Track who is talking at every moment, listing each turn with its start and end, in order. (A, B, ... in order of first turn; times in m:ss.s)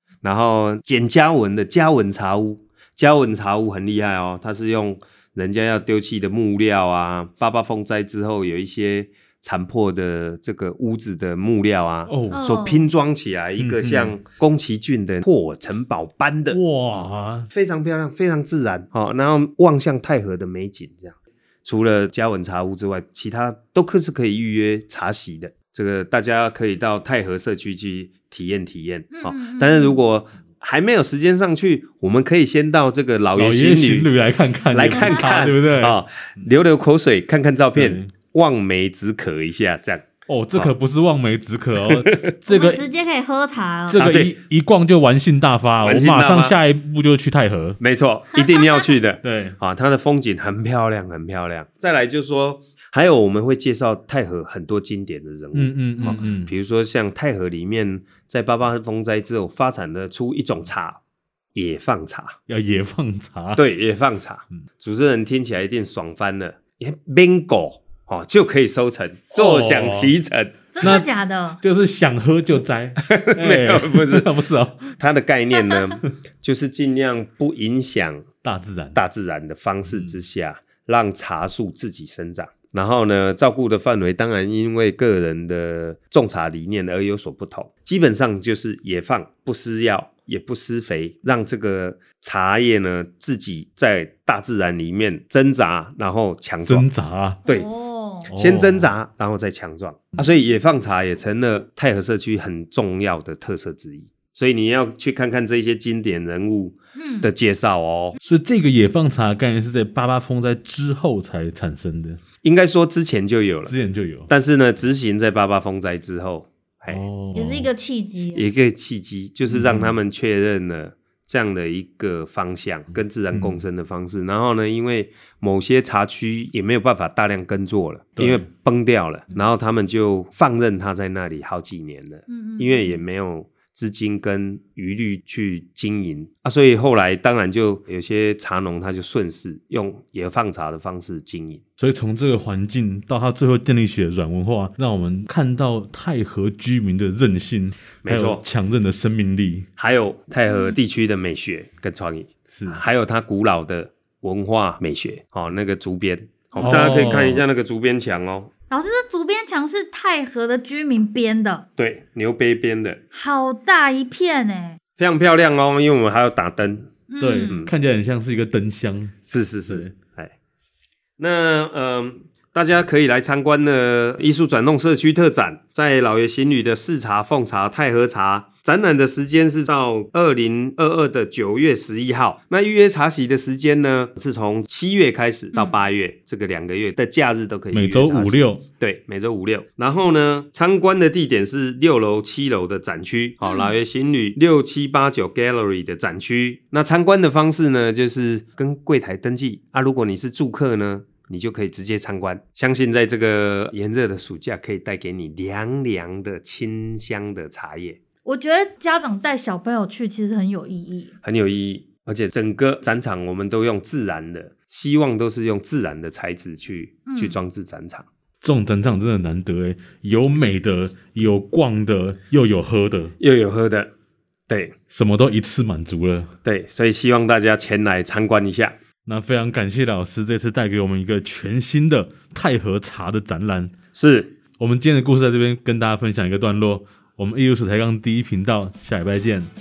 0:00.2-0:16.6 A
0:12.1-0:12.4 B
0:12.3-0:12.9 C
0:13.6-0:14.1 B
0:16.5-0:17.5 B
0:17.5-0:34.1 A
0:29.1-0:30.0 C
0:33.3-0:36.0 B
0:34.7-0:40.7 A
0:34.9-0:35.3 C
0:37.7-0:38.1 B
0:40.3-0:42.8 B
0:42.5-0:44.0 C
0:43.9-0:47.8 B
0:43.9-0:44.3 A
0:45.8-0:46.6 A
0:47.8-1:01.0 A
0:48.3-0:48.9 C
0:49.2-0:49.6 B
0:55.5-0:56.5 B
0:56.0-0:56.2 C
1:01.5-1:02.4 A
1:02.5-1:03.6 B
1:03.6-1:11.0 A
1:09.3-1:10.1 B
1:10.7-1:11.6 C
1:10.8-1:11.0 B
1:11.6-1:15.0 B
1:13.0-1:14.3 A
1:15.0-1:18.3 A
1:18.4-1:19.0 B
1:18.9-1:36.9 A
1:36.6-1:37.4 B
1:37.4-1:38.3 C
1:38.3-1:38.9 B
1:38.3-1:48.2 A
1:47.0-1:47.3 C
1:48.2-1:52.2 B
1:52.4-1:53.7 A
1:53.6-1:54.3 B
1:54.3-1:57.0 A
1:56.9-1:57.7 B
1:57.3-1:58.4 C
1:58.3-2:21.6 A
1:59.5-2:00.0 B
2:03.3-2:03.6 B
2:08.2-2:08.4 B
2:12.3-2:13.0 C
2:21.8-2:29.7 B
2:28.0-2:28.4 A
2:29.8-2:38.5 A
2:30.5-2:30.8 C
2:32.5-2:32.8 B
2:36.5-2:36.8 C
2:36.6-2:37.4 B
2:38.7-2:41.6 C
2:41.8-2:43.0 A
2:43.1-2:44.8 C
2:45.0-2:46.9 A
2:47.1-2:47.6 C
2:47.2-2:49.1 B
2:49.2-2:50.3 A
2:51.2-3:28.0 A
3:07.7-3:08.6 B
3:13.4-3:13.7 C
3:28.2-3:31.1 C
3:31.2-3:38.1 A
3:37.0-3:37.4 C
3:38.4-3:43.1 B
3:43.2-3:43.9 A
3:44.5-3:44.7 A
3:44.9-3:46.3 B
3:46.4-3:48.8 A
3:49.0-3:53.7 B
3:53.9-3:54.3 A
3:54.6-3:59.5 B